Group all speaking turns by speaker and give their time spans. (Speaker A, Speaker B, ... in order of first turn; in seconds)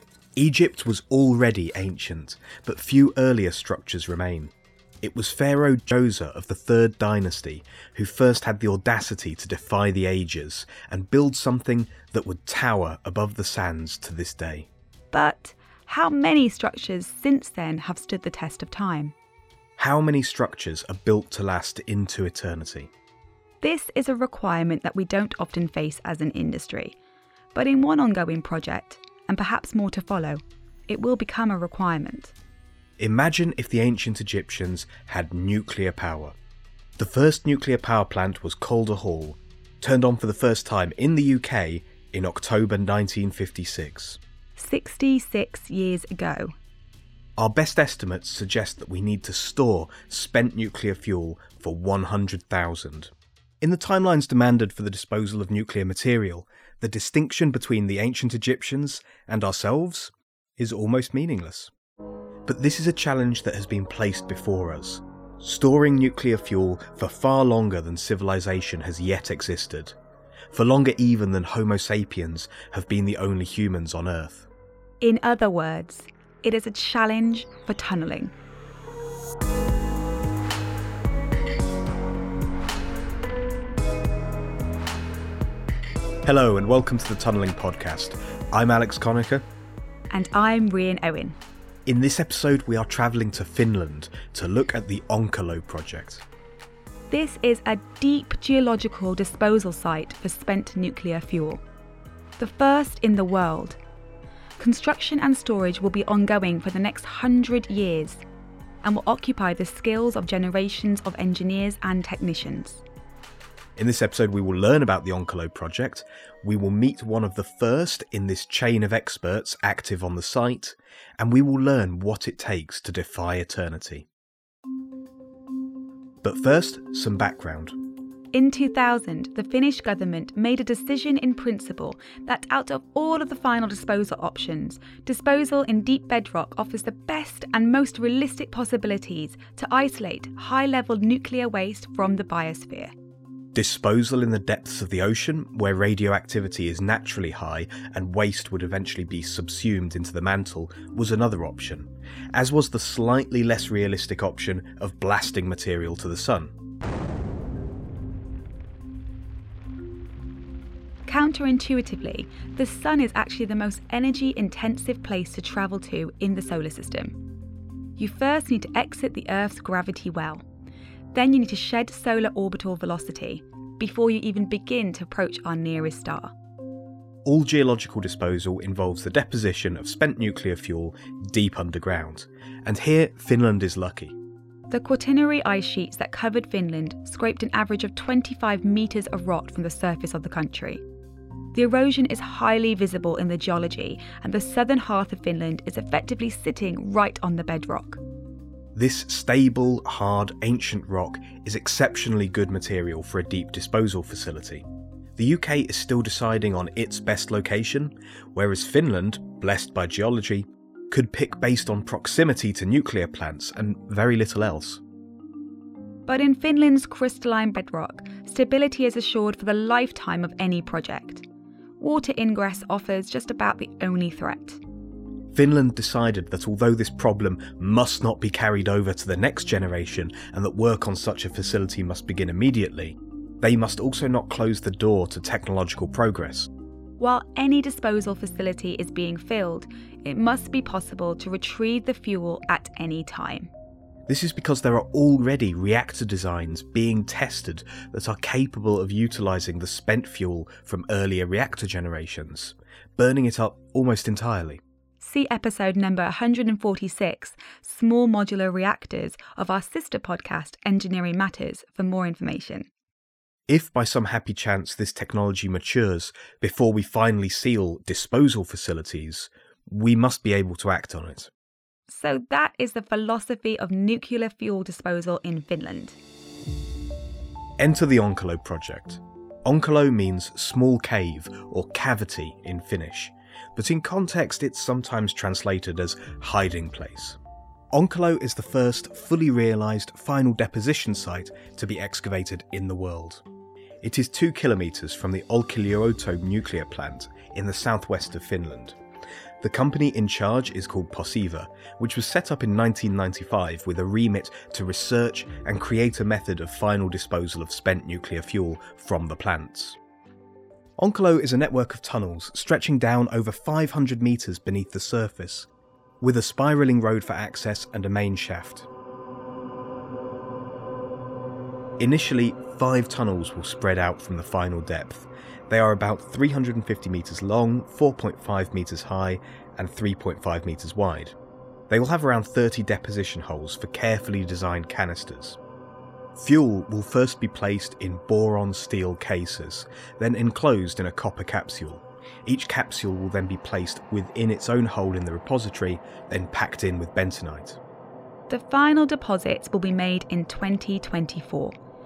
Speaker A: 0.4-14.7, 19.8-22.9, 33.0-36.4, 37.0-44.2, 47.4-61.7, 62.5-70.0, 70.5-74.5, 86.2-89.4, 91.9-96.2, 113.8-124.1, 126.2-127.8, 143.5-156.5, 177.2-184.2, 198.8-204.6, 205.2-214.8, 225.3-236.5, 244.1-254.6, 263.5-271.3, 277.6-287.2, 287.7-293.2, 293.8-298.8, 299.4-309.8, 310.8-315.5, 316.0-318.7, 321.8-331.1, 331.7-335.4, 336.2-347.6
Speaker B: 15.1-19.1, 23.6-26.9, 27.5-32.3, 44.6-46.5, 75.0-78.3, 90.1-91.4, 97.1-101.6, 102.4-103.8, 104.6-108.2, 108.8-112.8, 128.3-142.9, 161.1-167.2, 168.0-170.4, 171.1-176.3, 184.7-190.8, 191.5-198.0, 216.1-221.2, 221.8-224.6, 237.0-243.5, 255.0-262.7, 271.9-276.0, 348.3-351.6